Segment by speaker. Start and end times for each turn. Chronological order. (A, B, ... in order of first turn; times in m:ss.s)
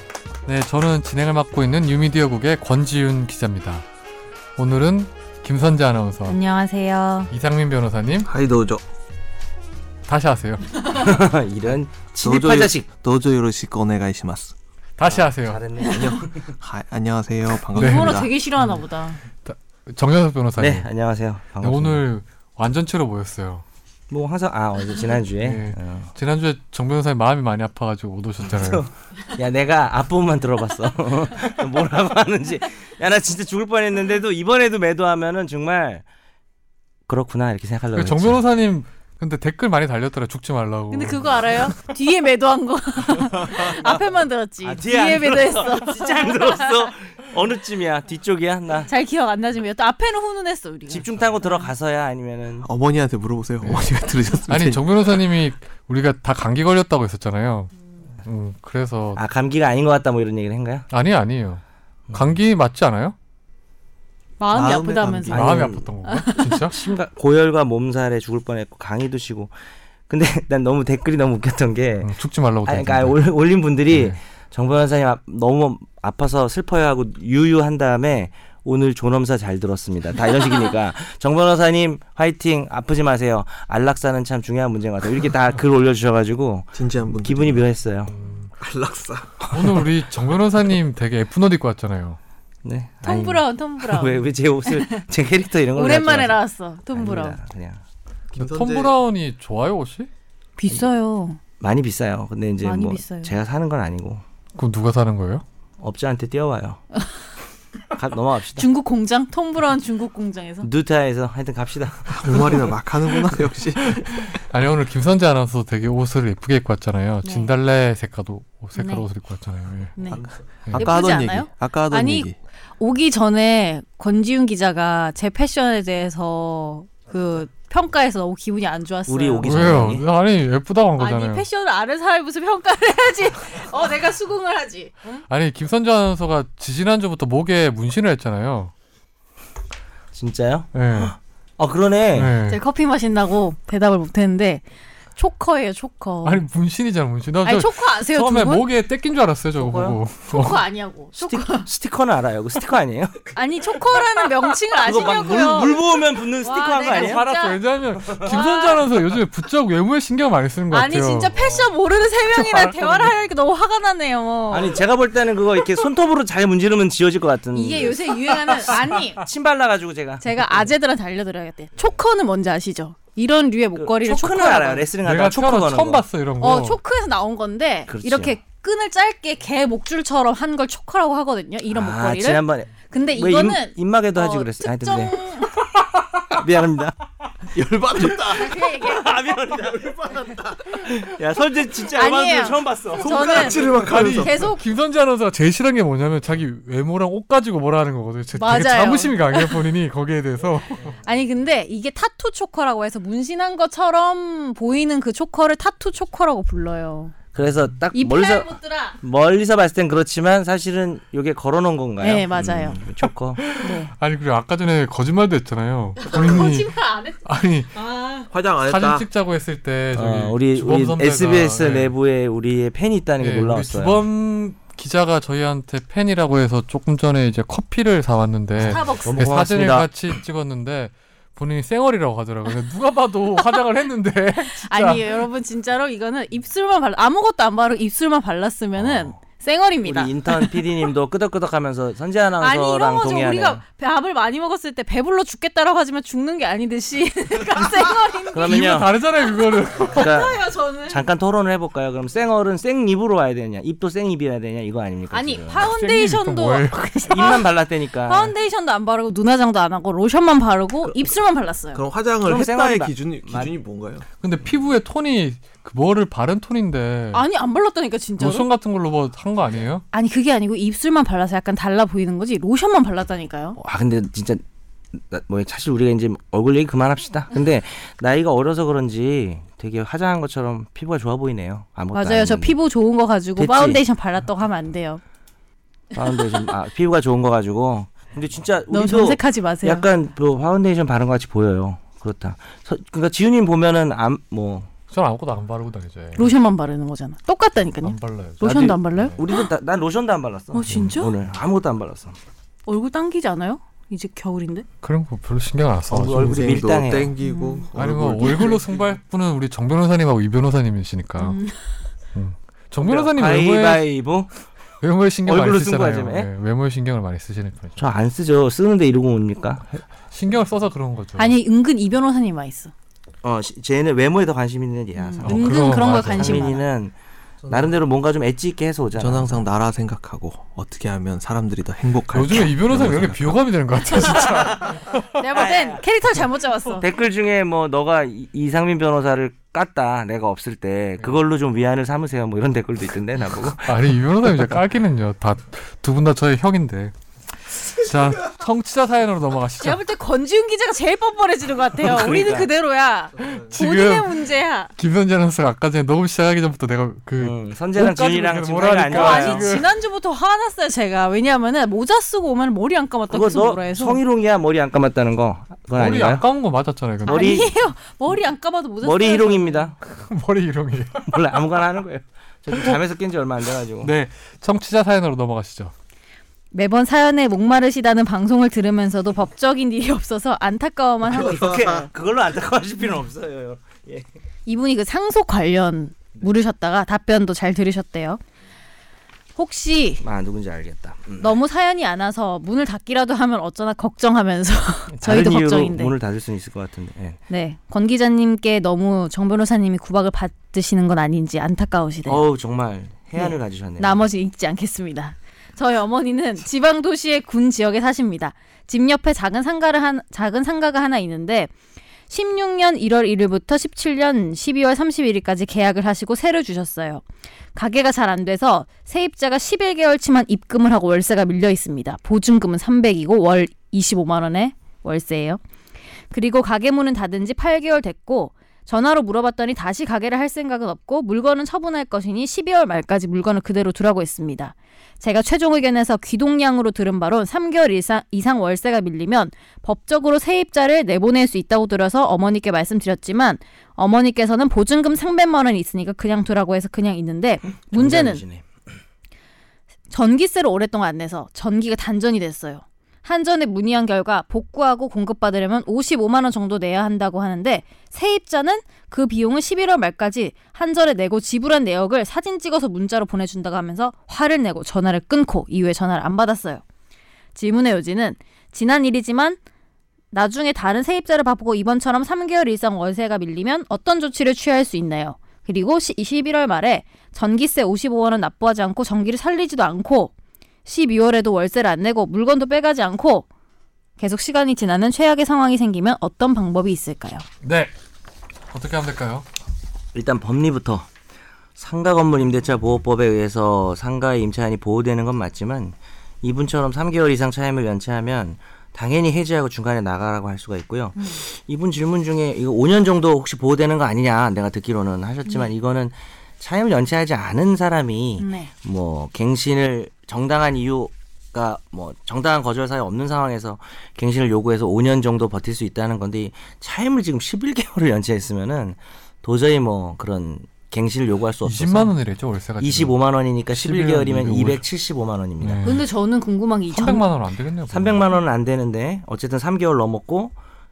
0:00.4-0:03.8 A
0:04.6-0:06.4 A
0:06.3-0:07.3 B
0:07.3-0:08.3 A
0:08.2-0:08.8 C
0:10.1-0:10.7 A
0:10.8-0:12.9 D
0:12.2-0:14.5 C
0:15.0-0:15.6 A
0:15.0-0:16.5 D
0:15.8-0:18.3 C
0:17.7-0:18.8 A
0:17.7-0:19.2 B
0:19.3-0:20.9 A
0:20.6-0:22.0 D
0:21.6-0:23.6 A
0:24.1-0:26.1 D
0:25.4-0:28.8 A
0:28.4-0:36.0 D
0:37.1-0:38.4 D
0:37.9-0:41.4 A
0:40.9-0:46.7 B
0:44.6-0:48.9 D
0:48.9-0:51.1 B
0:50.9-0:52.7 D
0:52.6-0:54.9 C
0:53.6-0:53.9 A
0:54.5-0:57.7 A
0:58.2-0:59.2 A
0:59.2-1:00.9 D
1:00.9-1:03.2 A
1:04.4-1:05.4 B
1:04.5-1:05.7 C
1:05.3-1:06.8 A
1:05.3-1:05.9 D
1:06.0-1:06.7 B
1:06.7-1:09.5 D
1:10.1-1:12.1 D
1:12.0-1:13.2 A
1:12.6-1:28.1 D
1:13.9-1:14.2 A
1:26.7-1:27.6 C
1:28.1-1:28.5 A
1:28.6-1:29.9 C
1:29.5-1:32.2 A
1:32.6-1:36.4 D
1:33.0-1:35.0 B
1:35.8-1:37.4 B
1:36.9-1:37.8 D
1:38.3-1:39.0 C
1:38.4-1:40.1 A
1:40.6-1:41.4 B
1:41.6-1:44.2 D
1:42.6-1:43.4 B
1:44.6-1:45.4 A
1:45.8-1:46.8 D
1:47.9-1:48.6 D
1:48.6-1:50.7 B
1:50.6-1:52.7 D
1:52.1-1:54.4 C
1:54.3-1:59.9 A
1:57.2-1:57.5 B
1:58.8-1:59.0 B
2:00.0-2:00.2 B
2:00.7-2:02.4 C
2:00.7-2:09.9 B
2:09.1-2:10.0 D
2:09.4-2:11.4 A
2:11.0-2:15.2 B
2:15.3-2:18.7 A
2:20.1-2:22.3 D
2:20.7-2:21.1 A
2:22.2-2:22.6 A
2:22.4-2:24.6 B
2:25.2-2:26.4 B
2:26.2-2:30.6 A
2:27.4-2:28.6 B
2:29.6-2:30.0 D
2:30.3-2:31.7 B
2:31.2-2:33.4 D
2:33.3-2:39.0 B
2:34.8-2:37.3 D
2:36.9-2:41.3 A
2:38.0-2:38.2 D
2:40.7-2:44.8 B
2:42.4-2:43.1 A
2:44.5-2:50.2 D
2:47.5-2:49.2 B
2:50.2-2:54.9 B
2:53.8-2:56.0 D
2:55.0-2:56.8 A
2:56.4-3:05.5 B
2:57.9-2:58.3 D
3:01.7-3:05.1 D
3:06.3-3:07.0 D
3:07.5-3:08.7 C
3:08.1-3:13.7 D
3:08.3-3:09.0 B
3:09.8-3:10.9 C
3:11.9-3:14.6 B
3:13.0-3:14.3 C
3:13.7-3:21.0 A
3:18.4-3:19.6 B
3:21.0-3:27.1 B
3:27.3-3:33.4 D
3:27.9-3:29.0 B
3:32.0-3:32.8 B
3:33.4-3:36.7 A
3:33.6-3:33.9 B
3:36.0-3:37.2 B
3:37.2-3:37.7 A
3:37.7-3:38.3 B
3:38.3-3:39.0 C
3:38.6-3:41.9 A
3:39.9-3:44.0 D
3:43.2-3:55.1 A
3:48.6-3:49.2 B
3:48.6-3:49.9 D
3:54.4-4:00.6 B
3:58.8-3:59.1 D
3:59.8-4:03.6 D
4:02.4-4:08.6 B
4:08.3-4:09.0 D
4:08.4-4:10.1 A
4:09.9-4:11.0 B
4:09.9-4:15.7 D
4:15.1-4:17.5 B
4:15.6-4:17.4 A
4:17.1-4:18.3 D
4:18.0-4:21.8 B
4:21.7-4:24.0 C
4:22.2-4:23.5 D
4:24.2-4:27.2 A
4:27.1-4:28.5 B
4:28.2-4:29.8 A
4:29.9-4:33.6 B
4:33.6-4:34.4 D
4:34.9-4:42.6 D
4:41.9-4:45.0 B
4:43.4-4:43.8 D
4:45.9-4:54.7 D
4:46.0-4:46.5 B
4:48.7-4:49.8 B
4:54.9-4:56.3 A
4:56.2-4:59.5 B
4:57.8-4:59.2 A
4:58.4-5:02.2 D
5:00.5-5:01.1 B
5:02.7-5:04.6 B
5:04.8-5:06.7 A
5:05.9-5:07.1 D
5:06.2-5:08.8 C
5:07.2-5:07.7 B
5:07.7-5:11.4 A
5:11.2-5:11.6 B
5:12.1-5:13.9 A
5:12.8-5:14.3 D
5:14.8-5:17.9 A
5:15.3-5:16.3 D
5:17.8-5:19.8 D
5:20.1-5:21.4 A
5:21.2-5:22.7 B
5:23.2-5:26.9 D
5:25.0-5:26.6 B
5:25.2-5:26.5 A
5:27.5-5:29.4 D
5:29.0-5:33.4 C
5:32.1-5:35.0 A
5:35.1-5:36.8 B
5:35.3-5:35.8 D
5:36.8-5:44.5 D
5:43.6-5:46.9 A
5:47.4-5:49.8 A
5:49.6-5:54.7 B
5:51.8-5:52.5 D
5:53.3-5:54.2 A
5:54.8-5:59.6 A
5:57.2-5:59.6 D
5:58.9-6:04.0 B
6:03.1-6:06.2 D
6:05.7-6:07.4 A
6:07.0-6:07.5 D
6:07.0-6:09.7 B
6:08.8-6:09.7 D
6:09.8-6:11.1 A
6:11.1-6:13.9 D
6:12.5-6:12.8 A
6:13.8-6:15.7 A
6:16.5-6:21.6 B
6:21.1-6:24.0 D
6:24.4-6:28.2 B
6:29.4-6:30.0 B
6:30.0-6:31.4 D
6:31.2-6:35.9 B
6:35.0-6:37.2 D
6:37.3-6:42.2 B
6:42.1-6:44.0 D
6:43.2-6:51.5 B
6:52.1-6:57.0 B
6:57.5-7:05.4 B
7:06.1-7:28.2 B
7:27.7-7:28.4 D
7:29.9-7:46.6 B
7:47.3-7:49.4 B
7:50.1-8:00.1 B
8:00.6-8:03.3 B
8:04.0-8:07.2 B
8:07.4-8:07.7 A
8:08.5-8:09.2 A
8:09.9-8:10.9 D
8:11.6-8:41.9 D
8:21.0-8:21.2 B
8:28.2-8:28.5 B
8:41.4-8:42.9 A
8:42.6-8:45.6 D
8:43.5-8:44.6 A
8:45.4-8:45.8 A
8:45.6-8:47.0 B
8:46.7-8:48.0 A
8:47.7-8:50.3 D